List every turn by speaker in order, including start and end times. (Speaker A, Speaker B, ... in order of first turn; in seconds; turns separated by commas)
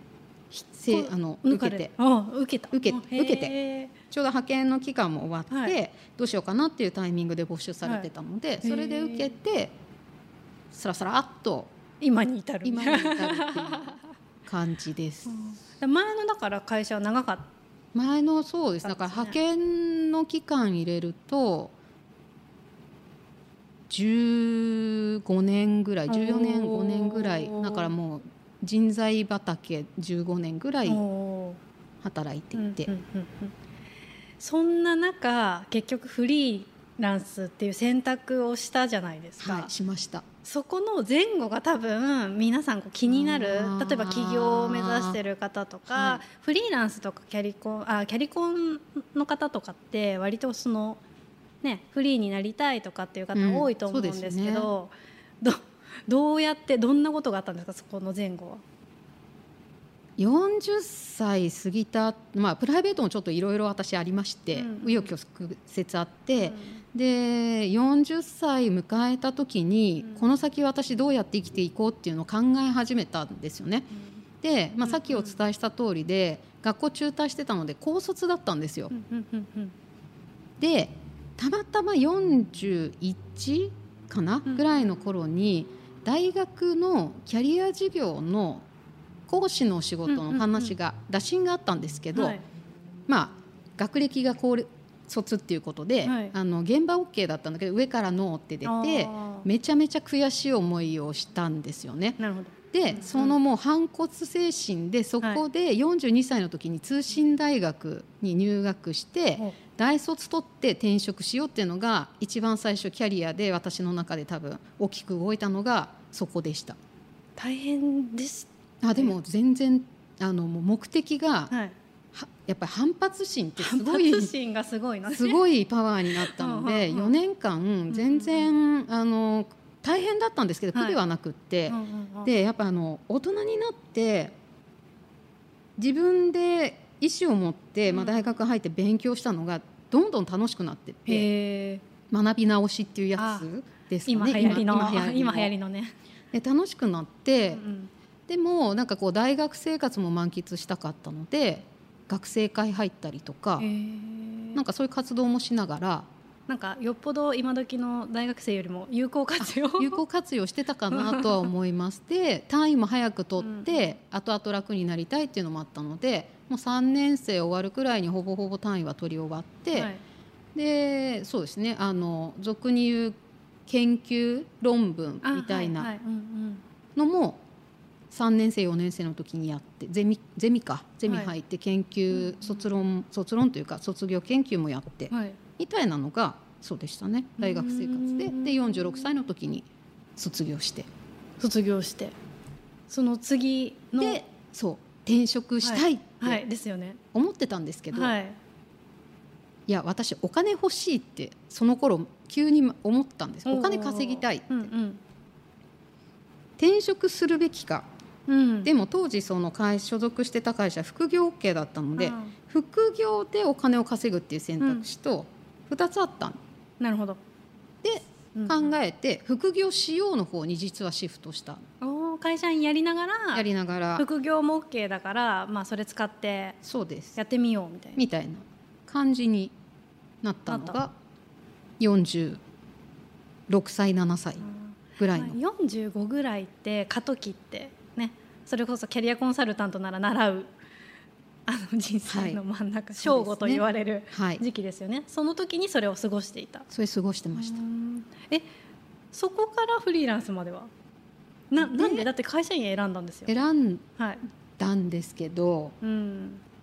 Speaker A: 0.7-3.9, Speaker B: 0.7-1.9, Speaker B: 2.7-3.5, Speaker B: 4.1-9.7, Speaker A: 5.5-5.8, Speaker A: 7.8-8.1, Speaker A: 8.6-9.3, Speaker B: 10.7-11.7, Speaker A: 12.0-14.1, Speaker B: 12.6-15.5, Speaker A: 15.3-17.5, Speaker B: 17.9-21.7, Speaker A: 18.8-19.4, Speaker B: 23.9-31.0, Speaker A: 26.1-27.9, Speaker A: 30.9-31.6, Speaker B: 32.0-32.9, Speaker A: 32.6-33.5, Speaker A: 34.4-39.7, Speaker B: 39.4-40.3, Speaker A: 40.4-51.0, Speaker B: 43.1-45.2, Speaker B: 45.9-46.2, Speaker A: 51.6-58.6, Speaker B: 53.3-54.7, Speaker B: 60.2-73.9, Speaker A: 64.5-65.1, Speaker A: 66.4-66.8, Speaker A: 70.0-70.3, Speaker B: 74.4-78.9, Speaker A: 74.8-75.4, Speaker A: 78.9-79.7, Speaker B: 80.6-88.7, Speaker B: 89.3-92.4, Speaker A: 90.1-90.8, Speaker A: 92.2-92.4, Speaker B: 93.1-102.2, Speaker A: 96.0-96.3, Speaker A: 98.6-99.5, Speaker A: 102.2-103.4, Speaker B: 102.7-116.8, Speaker A: 117.4-119.2, Speaker B: 118.8-121.5, Speaker A: 121.5-121.8, Speaker B: 122.1-124.3, Speaker A: 123.6-125.4, Speaker B: 125.1-134.3, Speaker A: 126.1-127.2, Speaker A: 127.9-128.6, Speaker A: 130.7-131.0, Speaker A: 131.7-132.3, Speaker B: 135.8-141.3, Speaker A: 137.9-138.3, Speaker A: 141.1-141.8, Speaker B: 142.1-145.5, Speaker A: 143.2-143.5, Speaker A: 144.1-145.9, Speaker B: 146.3-147.6, Speaker A: 147.5-147.9, Speaker B: 148.3-153.7, Speaker A: 153.6-154.6, Speaker B: 154.6-156.1, Speaker A: 156.5-160.0, Speaker B: 159.4-169.9, Speaker A: 160.9-161.5, Speaker A: 163.4-163.8, Speaker A: 169.7-170.0, Speaker B: 170.6-173.2, Speaker B: 173.7-175.9, Speaker A: 175.2-176.6, Speaker B: 177.0-177.4, Speaker B: 178.1-190.9, Speaker A: 181.1-181.4, Speaker A: 185.1-185.4, Speaker A: 187.4-189.1, Speaker A: 191.4-192.1, Speaker A: 192.9-194.2, Speaker B: 194.0-196.4, Speaker A: 195.6-197.0, Speaker B: 197.1-198.2, Speaker A: 197.9-198.4, Speaker B: 199.7-204.7, Speaker A: 203.5-205.0, Speaker B: 206.6-207.9, Speaker A: 208.3-208.7, Speaker B: 208.7-216.4, Speaker A: 212.0-212.3, Speaker A: 214.6-214.9, Speaker A: 216.8-217.2, Speaker B: 217.8-221.6, Speaker A: 218.3-218.6, Speaker A: 221.8-226.6, Speaker B: 223.3-224.1, Speaker B: 226.6-227.2, Speaker A: 227.2-228.1, Speaker B: 228.0-229.6, Speaker B: 230.2-230.9, Speaker A: 230.5-230.8, Speaker B: 231.8-232.4, Speaker B: 233.5-234.5, Speaker A: 234.4-240.5, Speaker B: 235.0-235.4, Speaker A: 241.5-246.7, Speaker B: 242.1-242.4, Speaker B: 242.9-244.4, Speaker B: 246.7-247.6, Speaker A: 247.3-248.4, Speaker A: 249.1-250.7, Speaker A: 251.5-253.3, Speaker B: 251.6-252.1, Speaker B: 253.3-253.8, Speaker B: 254.6-255.8, Speaker A: 255.8-256.4